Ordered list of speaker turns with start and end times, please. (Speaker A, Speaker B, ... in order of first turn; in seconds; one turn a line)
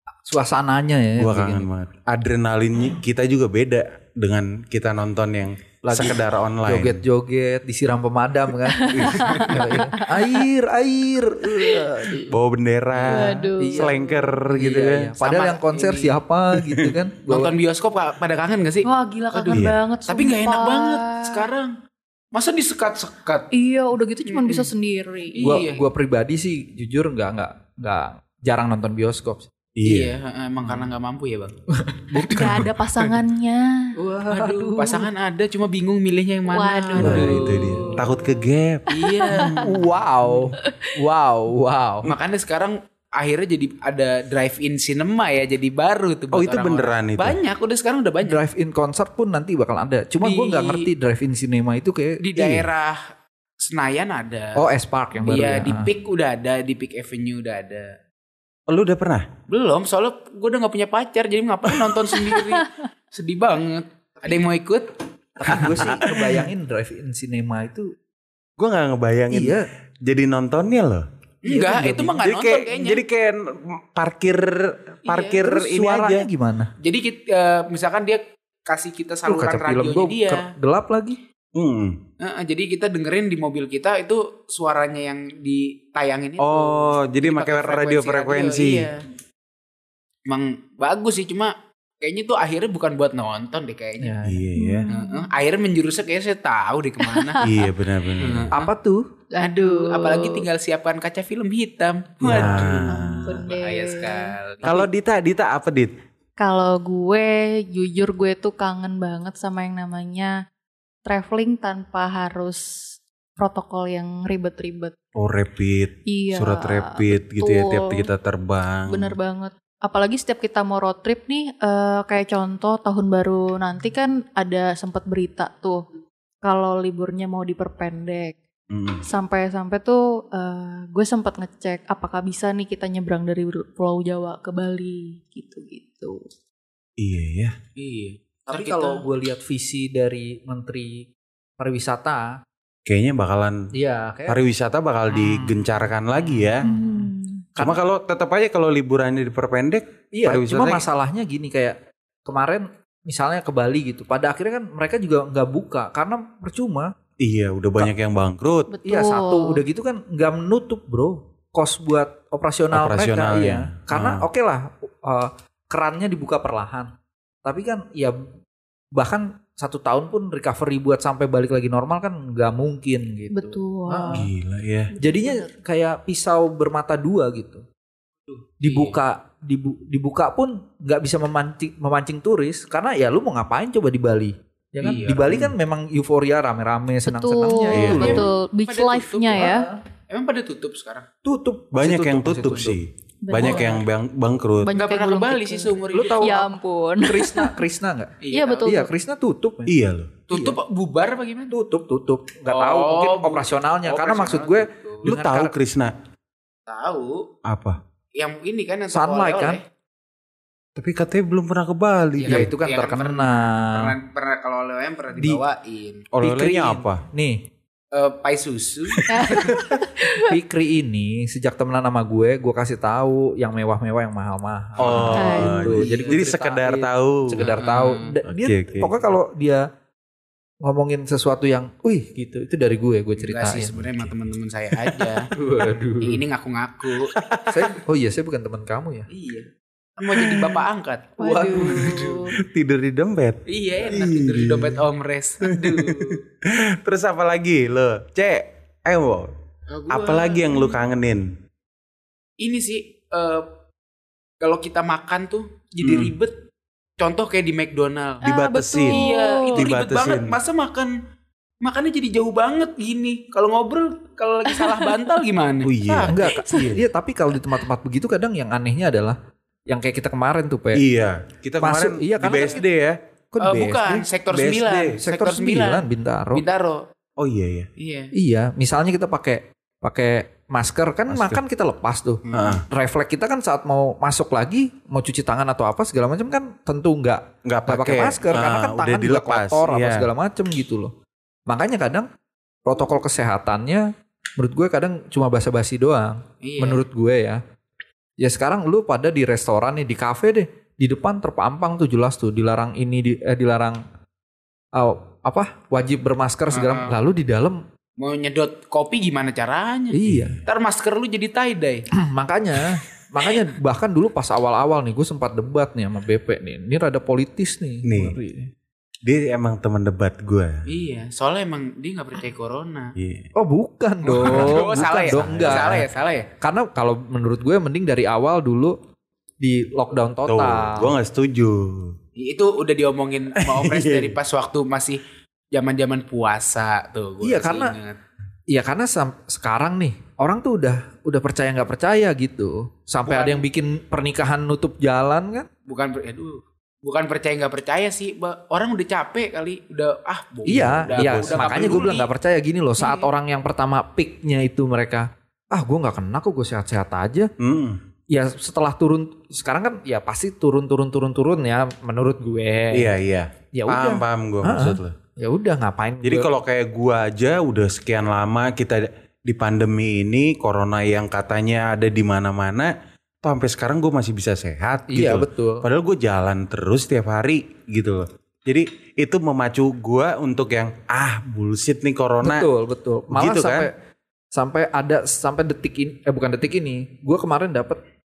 Speaker A: 0.2-1.7
Speaker B: 1.2-7.0
Speaker A: 5.8-12.3
Speaker C: 8.8-10.4
Speaker B: 8.9-9.7
Speaker C: 11.5-12.1
Speaker B: 12.3-15.1
Speaker A: 12.9-14.0
Speaker C: 13.1-14.3
Speaker A: 14.5-17.5
Speaker D: 15.2-16.2
Speaker B: 16.5-16.9
Speaker D: 17.3-21.7
Speaker C: 18.8-21.5
Speaker B: 19.5-19.8
Speaker D: 22.3-23.5
Speaker C: 23.5-25.5
Speaker D: 24.2-24.7
Speaker D: 25.3-25.9
Speaker A: 25.4-29.5
Speaker B: 29.8-30.1
Speaker D: 29.8-31.6
Speaker A: 31.7-32.6
Speaker C: 32.1-33.9
Speaker B: 32.1-32.7
Speaker A: 34.0-35.1
Speaker D: 34.3-38.1
Speaker C: 36.5-39.8
Speaker B: 37.0-39.5
Speaker A: 37.0-37.3
Speaker D: 38.9-39.8
Speaker A: 39.6-42.1
Speaker C: 40.6-40.9
Speaker D: 42.0-48.4
Speaker B: 46.3-47.4
Speaker A: 48.2-52.7
Speaker D: 50.2-50.9
Speaker D: 52.2-54.6
Speaker A: 54.5-55.9
Speaker D: 55.2-57.9
Speaker B: 58.7-59.3
Speaker D: 59.5-64.9
Speaker A: 65.4-67.9
Speaker D: 65.5-65.9
Speaker B: 65.5-66.1
Speaker B: 68.6-71.0
Speaker A: 69.3-69.7
Speaker D: 71.4-73.0
Speaker A: 71.5-72.2
Speaker B: 72.2-76.3
Speaker D: 75.0-75.4
Speaker A: 75.4-76.7
Speaker D: 76.8-80.5
Speaker A: 79.2-81.2
Speaker B: 81.5-82.0
Speaker D: 82.2-89.0
Speaker B: 86.4-88.9
Speaker D: 90.3-94.2
Speaker A: 94.0-94.4
Speaker B: 94.2-94.9
Speaker C: 94.6-95.3
Speaker D: 94.9-97.5
Speaker C: 97.0-97.7
Speaker B: 97.4-98.5
Speaker D: 98.2-98.7
Speaker A: 98.5-99.0
Speaker C: 99.3-100.5
Speaker D: 99.4-104.8
Speaker B: 102.2-103.5
Speaker A: 102.3-102.6
Speaker C: 102.9-104.8
Speaker B: 104.6-106.0
Speaker C: 106.4-110.4
Speaker C: 111.0-114.9
Speaker B: 115.2-119.2
Speaker C: 116.1-118.1
Speaker C: 118.9-125.8
Speaker C: 126.4-128.3
Speaker B: 128.7-129.0
Speaker C: 129.0-136.2
Speaker B: 137.0-137.6
Speaker D: 137.8-139.1
Speaker A: 138.5-142.4
Speaker B: 142.8-143.7
Speaker A: 143.7-144.4
Speaker B: 144.3-146.7
Speaker A: 145.1-147.8
Speaker C: 146.6-147.4
Speaker B: 147.6-150.8
Speaker A: 150.1-156.9
Speaker B: 157.2-158.7
Speaker C: 158.7-159.6
Speaker A: 158.8-166.9
Speaker B: 162.7-164.2
Speaker A: 167.4-168.2
Speaker A: 168.9-174.3
Speaker C: 173.3-174.3
Speaker B: 174.1-174.9
Speaker C: 174.9-175.5
Speaker A: 175.0-177.6
Speaker D: 178.3-179.0
Speaker A: 178.6-188.3
Speaker D: 184.8-185.3
Speaker B: 185.3-185.5
Speaker C: 187.1-189.7
Speaker B: 187.7-188.2
Speaker D: 187.8-191.1
Speaker A: 189.3-189.8
Speaker A: 191.2-192.8
Speaker B: 191.7-194.7
Speaker C: 193.2-193.8
Speaker C: 194.6-197.6
Speaker D: 194.7-196.3
Speaker A: 195.9-199.7
Speaker D: 198.2-198.8
Speaker C: 198.3-198.9
Speaker B: 199.7-200.2
Speaker D: 200.3-201.5
Speaker A: 200.3-200.6
Speaker A: 201.5-205.5
Speaker D: 202.5-205.1
Speaker B: 205.0-205.9
Speaker D: 206.7-207.2
Speaker B: 207.4-207.8
Speaker D: 208.2-209.6
Speaker A: 208.9-209.6
Speaker B: 210.8-212.5
Speaker D: 212.2-216.1
Speaker A: 212.2-213.9
Speaker B: 216.1-217.0
Speaker A: 216.2-217.4
Speaker D: 217.9-219.5
Speaker B: 218.9-219.7
Speaker C: 219.1-220.3
Speaker A: 220.2-229.7
Speaker B: 224.8-227.5
Speaker D: 224.8-226.2
Speaker C: 224.9-225.7
Speaker D: 227.4-228.2
Speaker B: 228.2-228.9
Speaker A: 230.6-233.7
Speaker D: 233.2-235.3
Speaker B: 233.8-234.1
Speaker A: 235.3-236.2
Speaker D: 236.0-237.2
Speaker B: 237.1-237.5
Speaker A: 237.5-239.1
Speaker D: 239.1-242.1
Speaker C: 240.2-240.5
Speaker A: 241.2-241.9
Speaker C: 241.2-242.3
Speaker B: 241.8-244.8
Speaker D: 243.5-246.2
Speaker B: 245.4-249.3
Speaker D: 249.7-250.8
Speaker B: 249.9-251.3
Speaker D: 252.4-253.5
Speaker D: 254.4-256.4
Speaker B: 255.8-256.1
Speaker D: 257.0-258.2
Speaker B: 258.2-260.4
Speaker C: 258.2-259.6
Speaker D: 258.8-260.9
Speaker D: 261.6-265.8
Speaker C: 264.5-265.1
Speaker B: 265.6-266.8
Speaker C: 266.0-266.7
Speaker A: 266.1-270.8
Speaker B: 270.7-273.0
Speaker A: 271.6-272.6
Speaker D: 272.3-272.6
Speaker A: 273.3-274.1
Speaker D: 273.4-276.9
Speaker B: 274.3-275.0
Speaker A: 275.0-276.4
Speaker B: 277.2-277.7
Speaker D: 277.8-278.1
Speaker A: 278.1-290.9
Speaker B: 281.1-281.4
Speaker D: 282.2-282.6
Speaker B: 282.3-282.6
Speaker B: 287.4-290.1
Speaker A: 291.5-292.1
Speaker A: 292.6-297.4
Speaker D: 296.4-296.8
Speaker A: 298.2-303.8
Speaker A: 304.7-307.6
Speaker D: 306.5-306.9
Speaker D: 308.0-311.9
Speaker A: 309.9-310.4
Speaker B: 310.1-310.4
Speaker A: 311.9-318.5
Speaker B: 317.8-318.2
Speaker B: 319.0-320.6
Speaker D: 320.7-322.9
Speaker B: 323.0-323.3
Speaker A: 323.3-325.9
Speaker D: 324.0-326.3
Speaker B: 324.2-325.8
Speaker A: 326.4-328.8
Speaker A: 329.4-330.9
Speaker B: 330.3-331.9
Speaker D: 332.1-335.0
Speaker B: 333.4-334.1
Speaker D: 335.5-338.0
Speaker A: 337.2-337.7
Speaker A: 338.5-345.5
Speaker D: 343.1-343.4
Speaker D: 345.7-352.1
Speaker A: 350.4-357.3
Speaker B: 350.5-351.9
Speaker C: 352.8-353.1
Speaker B: 357.4-357.8
Speaker A: 358.1-362.9
Speaker B: 362.7-364.9
Speaker A: 363.5-366.3
Speaker B: 366.0-372.7
Speaker B: 373.2-382.5
Speaker A: 374.9-375.6
Speaker A: 382.2-383.7
Speaker B: 383.1-383.7
Speaker A: 384.3-387.8